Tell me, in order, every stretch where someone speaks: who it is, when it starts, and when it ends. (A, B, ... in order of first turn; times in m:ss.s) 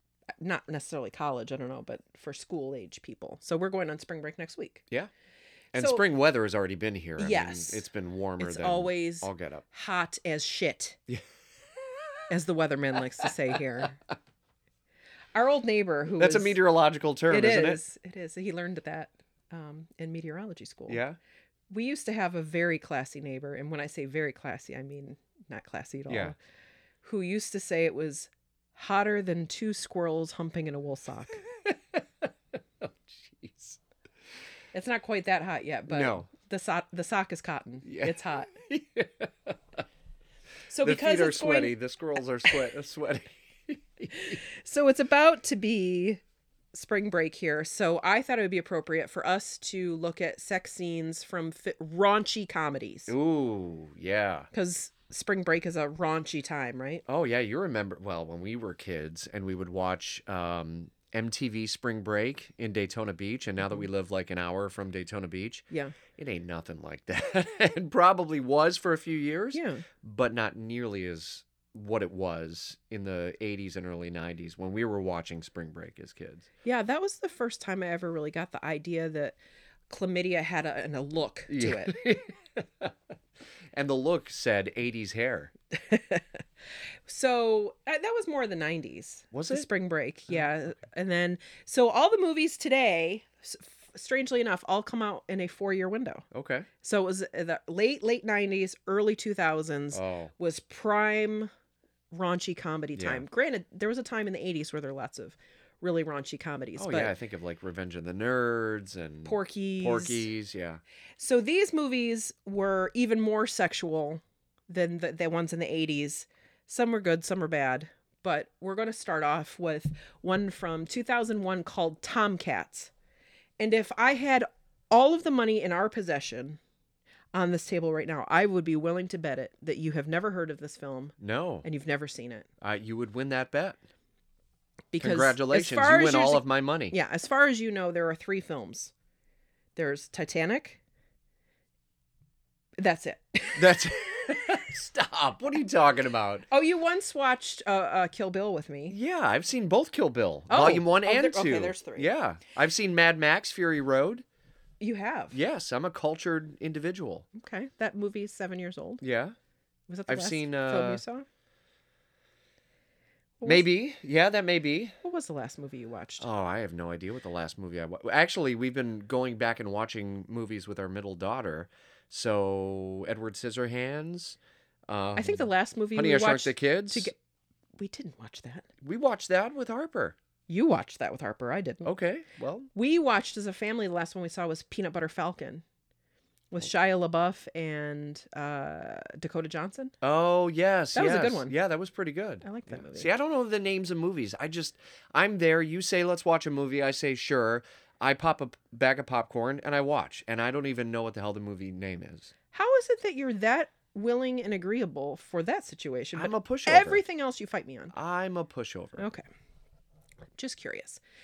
0:00.4-0:04.8 A
0:05.7-0:06.0 A
0:05.7-0:09.6 B
0:07.2-0:07.8 A
0:08.4-0:11.0 A
0:12.3-0:14.0 A
0:15.3-0:16.6 A
0:16.2-0:17.8 B
0:17.3-0:21.0 A
0:20.9-0:21.2 B
0:21.7-0:26.4 A
0:26.1-0:26.3 B
0:27.0-0:31.4 A
0:31.6-0:33.8 B
0:34.7-0:38.5 A
0:35.9-0:36.3 B
0:37.8-0:39.8 B
0:40.7-0:41.8 A
0:40.8-0:44.4 B
0:44.1-0:46.2 A
0:46.7-0:53.1 A
0:53.1-0:54.5 B
0:54.5-0:57.0 A
0:57.1-1:16.5 B
1:03.6-1:03.9 A
1:05.7-1:06.0 A
1:09.5-1:09.8 A
1:16.6-1:19.4 A
1:19.9-1:22.0 A
1:21.5-1:22.9 B
1:23.7-1:25.5 B
1:25.8-1:26.2 A
1:27.1-1:36.2 A
1:29.3-1:29.7 B
1:36.3-1:36.7 B
1:36.8-1:41.5 A
1:39.9-1:40.3 B
1:42.1-1:47.1 A
1:43.0-1:43.2 B
1:46.8-1:50.8 B
1:49.2-1:50.3 A
1:51.2-2:02.9 A
2:03.6-2:06.6 A
2:07.3-2:12.5 A
2:11.2-2:11.7 B
2:12.6-2:13.8 B
2:14.9-2:18.9 A
2:15.0-2:17.0 B
2:19.8-2:20.8 A
2:22.8-2:23.9 A
2:23.5-2:26.4 B
2:26.5-2:29.0 A
2:28.9-2:34.2 B
2:30.5-2:32.1 A
2:34.8-2:35.4 A
2:35.3-2:37.3 B
2:37.3-2:39.0 A
2:39.0-2:39.4 B
2:39.9-2:41.2 A
2:40.1-2:41.0 B
2:43.4-2:43.7 A
2:43.4-2:44.9 B
2:45.0-2:46.3 A
2:46.2-2:57.1 B
2:55.2-2:57.2 A
2:57.8-2:58.7 A
2:58.8-3:00.2 B
3:00.5-3:01.9 A
3:01.8-3:02.7 B
3:02.7-3:05.6 A
3:06.5-3:09.9 A
3:10.0-3:22.3 B
3:10.9-3:11.6 A
3:12.4-3:13.1 A
3:22.5-3:27.9 A
3:26.1-3:27.0 B
3:27.9-3:29.1 B
3:29.0-3:29.2 A
3:30.4-3:31.0 A